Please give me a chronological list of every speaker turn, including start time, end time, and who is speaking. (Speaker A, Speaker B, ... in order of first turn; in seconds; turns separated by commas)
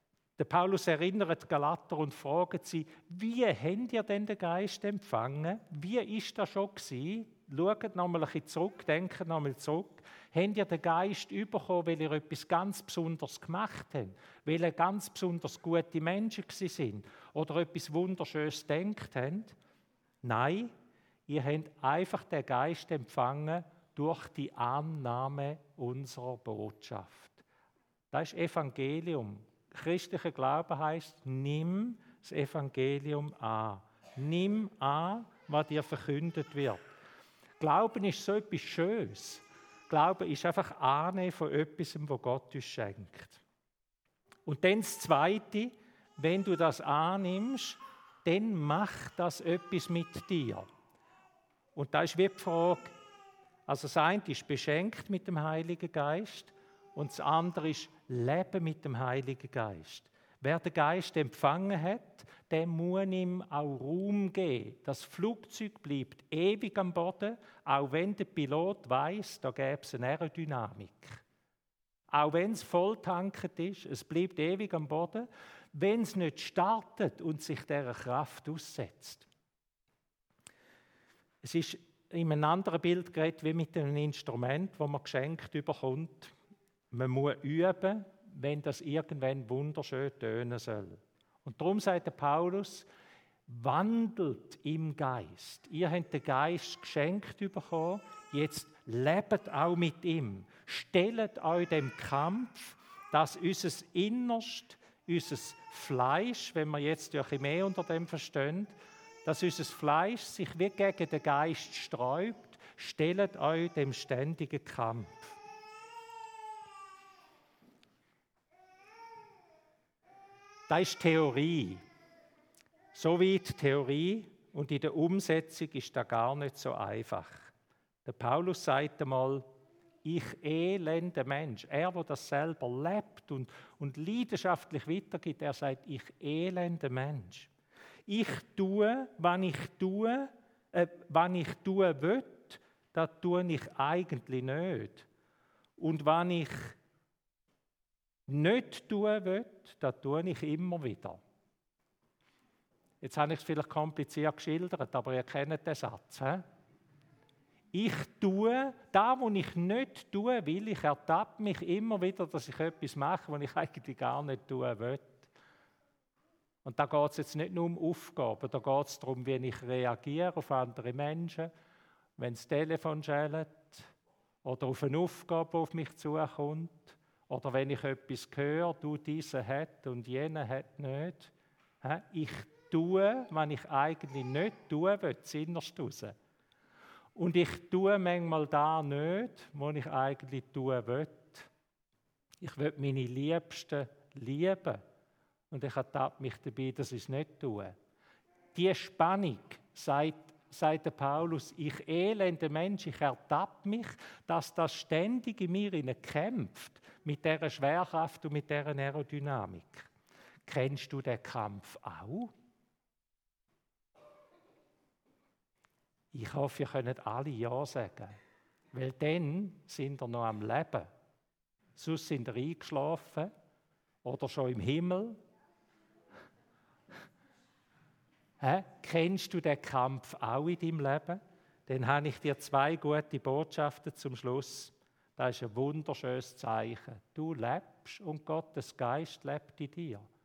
Speaker A: 0.4-19.6, Speaker A: 20.2-20.7, Speaker A: 21.3-27.4, Speaker A: 28.1-36.8, Speaker A: 37.6-43.4, Speaker A: 44.5-50.7, Speaker A: 51.8-53.0, Speaker A: 53.7-71.2, Speaker A: 72.1-79.3, Speaker A: 81.4-86.3, Speaker A: 86.9-92.9, Speaker A: 93.5-115.4, Speaker A: 120.7-121.8, Speaker A: 122.9-127.5, Speaker A: 128.1-129.5, Speaker A: 130.0-137.5, Speaker A: 138.1-145.1, Speaker A: 145.8-146.8, Speaker A: 148.3-151.2, Speaker A: 153.0-156.4, Speaker A: 157.7-165.3, Speaker A: 166.7-171.5, Speaker A: 172.2-173.9, Speaker A: 174.4-186.2, Speaker A: 187.2-191.5, Speaker A: 192.4-194.8, Speaker A: 195.5-197.8, Speaker A: 198.5-209.9, Speaker A: 210.5-212.3, Speaker A: 216.1-218.2, Speaker A: 218.7-220.9, Speaker A: 221.8-223.3, Speaker A: 224.0-225.2, Speaker A: 228.4-240.1